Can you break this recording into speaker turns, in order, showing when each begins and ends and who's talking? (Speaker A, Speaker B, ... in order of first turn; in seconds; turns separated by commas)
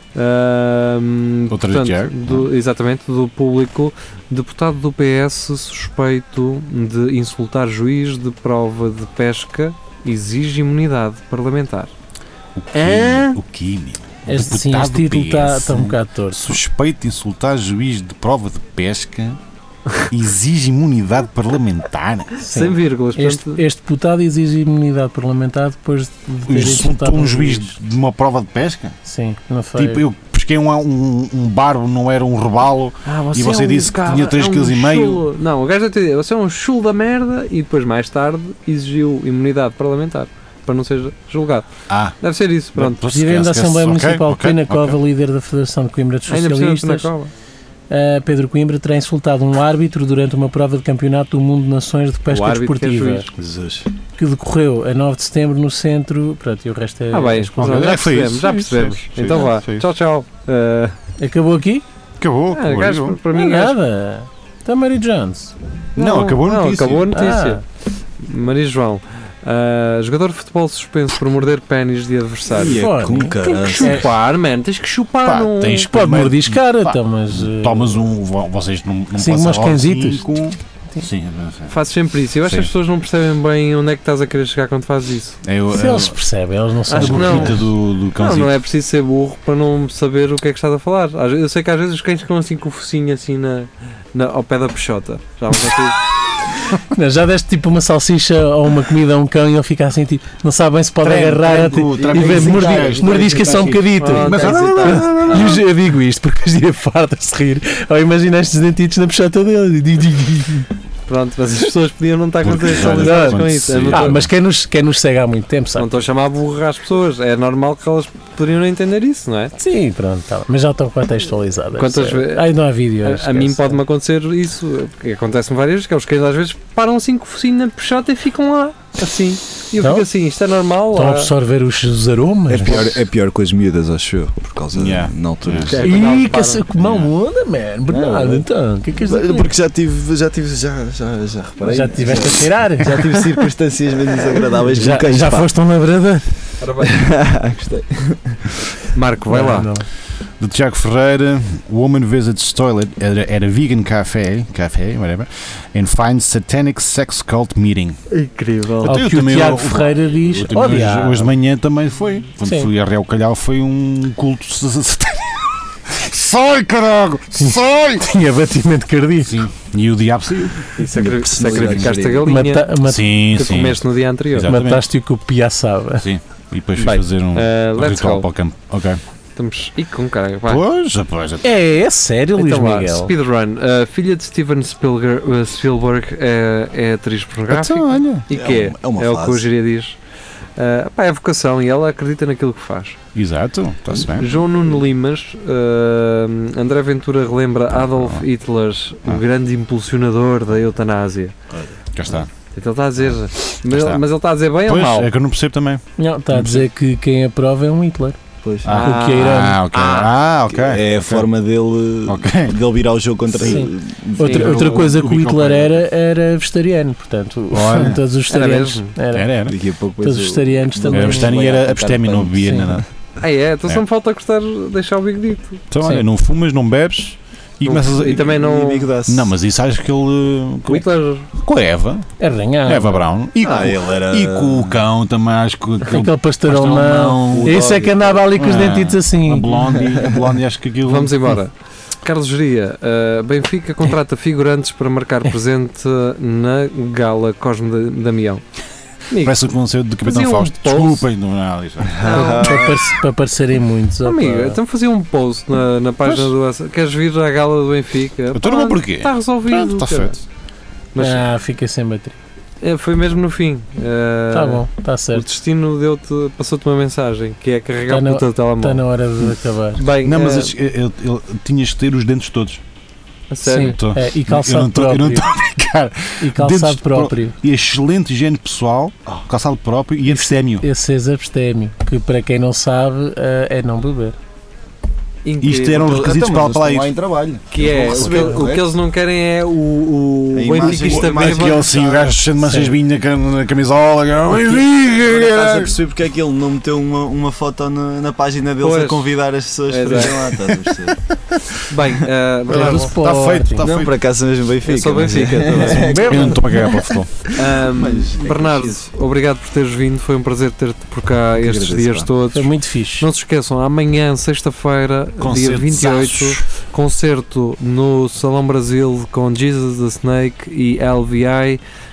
Speaker A: 0.1-11.9, Speaker B: 1.5-2.5, Speaker B: 12.6-19.4, Speaker A: 12.7-13.4, Speaker C: 14.3-16.6, Speaker B: 20.1-22.4, Speaker C: 22.4-27.8, Speaker A: 22.5-23.6, Speaker B: 26.5-29.0, Speaker C: 29.1-30.0, Speaker B: 29.8-35.2, Speaker A: 33.1-41.7, Speaker B: 41.9-42.2, Speaker A: 42.2-43.0, Speaker B: 42.8-45.0, Speaker C: 43.1-47.1, Speaker A: 46.3-47.3, Speaker C: 47.9-53.3, Speaker A: 52.3-53.3, Speaker D: 53.4-53.9, Speaker C: 54.2-58.0, Speaker A: 57.1-61.0, Speaker B: 57.6-59.9, Speaker C: 61.2-61.8, Speaker B: 62.2-63.2, Speaker A: 62.5-63.8, Speaker C: 63.3-65.5, Speaker B: 66.0-67.2, Speaker A: 66.0-67.7, Speaker C: 67.1-67.6, Speaker A: 68.2-75.9, Speaker D: 72.5-74.1, Speaker C: 72.6-74.0, Speaker B: 75.2-81.8, Speaker C: 75.8-78.0, Speaker C: 79.2-80.3, Speaker A: 81.7-85.4, Speaker B: 82.5-82.7, Speaker B: 85.4-86.2, Speaker C: 85.7-87.6, Speaker A: 86.9-96.1, Speaker B: 86.9-88.5, Speaker C: 96.7-110.7, Speaker B: 101.0-105.1, Speaker D: 101.9-105.6, Speaker A: 104.0-105.6, Speaker A: 111.1-114.2, Speaker B: 112.4-114.3, Speaker C: 112.9-115.9, Speaker A: 115.8-119.5, Speaker C: 119.6-123.8, Speaker A: 121.8-131.3, Speaker C: 129.8-130.1, Speaker C: 130.9-133.0, Speaker D: 132.5-136.1, Speaker B: 134.7-135.8, Speaker A: 135.7-136.7, Speaker C: 135.8-139.5, Speaker B: 136.8-137.1, Speaker D: 137.9-145.5, Speaker C: 141.6-143.3, Speaker C: 144.7-146.6, Speaker A: 146.6-147.0, Speaker D: 146.8-148.6, Speaker A: 148.9-149.7, Speaker C: 149.3-149.9, Speaker B: 150.4-158.0, Speaker A: 158.1-159.0, Speaker B: 158.8-168.1, Speaker C: 158.8-161.3, Speaker C: 162.4-162.7, Speaker C: 167.4-169.4, Speaker B: 169.2-170.7, Speaker A: 170.8-172.7, Speaker D: 170.8-172.4, Speaker B: 171.4-171.9, Speaker C: 172.2-173.0, Speaker B: 172.8-174.8, Speaker A: 173.3-174.5, Speaker C: 174.5-176.1, Speaker B: 176.0-179.0, Speaker A: 176.8-178.3, Speaker A: 179.4-180.6, Speaker B: 180.4-181.5, Speaker C: 181.4-183.1, Speaker A: 182.4-190.0, Speaker B: 187.5-188.2, Speaker D: 188.3-189.4, Speaker A: 190.6-193.0, Speaker B: 193.2-194.4, Speaker A: 193.9-201.3, Speaker B: 197.8-198.3, Speaker B: 201.9-202.3, Speaker A: 202.5-205.1, Speaker B: 203.0-204.0, Speaker B: 204.7-206.7, Speaker C: 206.0-208.2, Speaker D: 208.4-208.7, Speaker B: 208.6-211.3, Speaker A: 208.7-210.1, Speaker C: 208.7-209.6, Speaker D: 210.5-215.0, Speaker B: 212.1-212.6, Speaker C: 213.4-219.3, Speaker A: 214.2-214.7, Speaker B: 214.3-215.8, Speaker B: 217.5-218.0, Speaker A: 218.3-218.9, Speaker B: 219.1-219.6, Speaker D: 219.5-222.8, Speaker C: 220.0-221.3, Speaker B: 220.9-222.9, Speaker C: 222.4-222.7, Speaker A: 223.2-225.6, Speaker B: 225.7-228.3, Speaker A: 227.6-228.9, Speaker D: 227.9-229.3, Speaker B: 229.1-232.1, Speaker A: 230.7-231.3, Speaker C: 232.2-233.0, Speaker B: 232.7-237.7, Speaker D: 233.4-234.8, Speaker A: 233.4-233.7, Speaker C: 235.8-239.8, Speaker D: 237.3-238.2, Speaker B: 238.4-241.4, Speaker A: 240.9-248.4, Speaker A: 249.1-249.4, Speaker B: 249.2-252.5, Speaker A: 250.0-251.1, Speaker D: 251.8-252.8, Speaker A: 252.0-252.6, Speaker C: 252.4-254.6, Speaker A: 254.0-260.2, Speaker B: 256.1-256.3, Speaker B: 258.3-260.2, Speaker A: 260.9-261.2, Speaker C: 261.0-262.2, Speaker A: 262.6-270.5, Speaker C: 264.3-265.2, Speaker C: 267.9-269.8, Speaker B: 270.0-272.6, Speaker A: 273.3-273.8, Speaker C: 273.4-275.3, Speaker B: 273.6-280.7, Speaker C: 276.2-277.4, Speaker C: 280.1-284.2, Speaker A: 285.2-286.0, Speaker B: 285.4-286.9, Speaker D: 285.6-288.7, Speaker A: 287.5-291.7, Speaker C: 287.9-288.5, Speaker D: 290.3-292.1, Speaker B: 290.6-295.8, Speaker C: 292.4-292.7, Speaker D: 295.1-301.0, Speaker A: 298.6-299.1, Speaker A: 299.7-300.3, Speaker B: 300.7-301.6, Speaker A: 301.7-302.9, Speaker B: 302.5-303.9, Speaker C: 302.5-303.7, Speaker D: 303.6-308.9, Speaker A: 304.6-306.4, Speaker B: 305.8-307.1, Speaker A: 307.3-321.6, Speaker D: 311.4-312.1, Speaker C: 312.3-313.1, Speaker B: 315.2-316.4